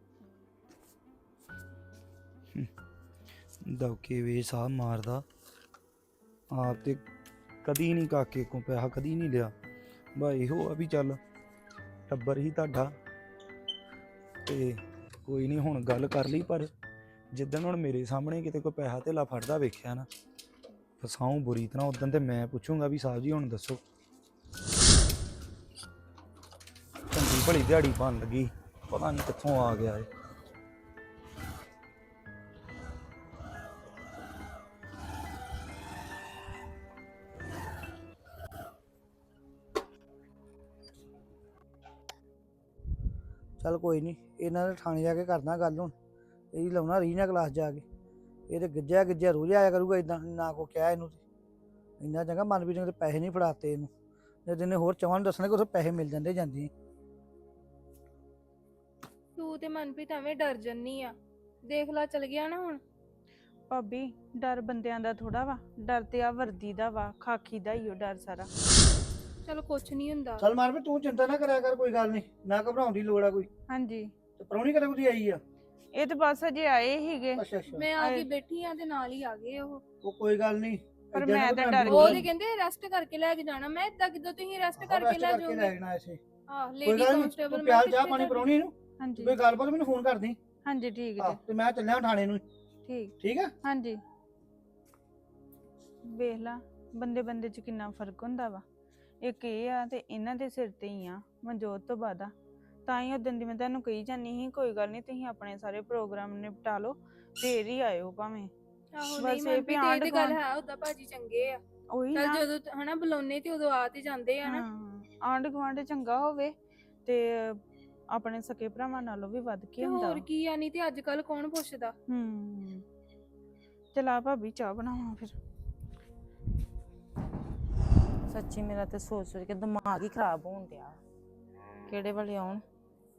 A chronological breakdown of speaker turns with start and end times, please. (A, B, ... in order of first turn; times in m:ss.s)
0:03.7-0:05.2 A
0:06.5-0:07.0 A
0:07.6-0:09.5 A
0:10.2-0:11.2 A
0:12.1-0:12.9 A
0:14.5-0:16.7 A
0:17.3-0:20.1 A
0:21.0-0:23.8 A
0:27.1-0:30.1 A
0:43.6-0:45.9 B
0:46.5-0:47.8 B
0:48.5-0:51.2 B
0:52.0-0:53.9 B
0:54.5-0:56.7 B
0:59.4-1:02.8 C
1:03.7-1:08.5 D
1:09.5-1:10.4 C
1:10.4-1:13.5 B
1:13.7-1:14.1 D
1:14.4-1:15.4 B
1:15.9-1:17.4 D
1:17.4-1:17.8 B
1:17.7-1:19.8 C
1:18.0-1:18.2 D
1:20.0-1:22.2 B
1:21.1-1:22.3 D
1:21.9-1:25.7 C
1:24.8-1:26.2 B
1:26.5-1:28.5 C
1:26.8-1:30.4 B
1:29.0-1:29.4 D
1:30.6-1:31.4 D
1:31.2-1:32.4 B
1:32.9-1:33.1 D
1:33.2-1:33.5 B
1:33.6-1:34.0 D
1:36.1-1:38.6 D
1:39.2-1:42.3 D
1:42.9-1:48.5 D
1:49.0-1:51.6 C
1:49.1-1:50.4 D
1:51.9-1:52.4 D
1:52.2-1:54.7 C
1:54.5-1:56.5 D
1:57.1-1:57.6 D
1:58.1-2:00.2 D
1:59.8-2:02.0 C
2:02.1-2:02.8 D
2:04.0-2:05.4 D
2:08.3-2:11.0 E
2:11.9-2:12.6 E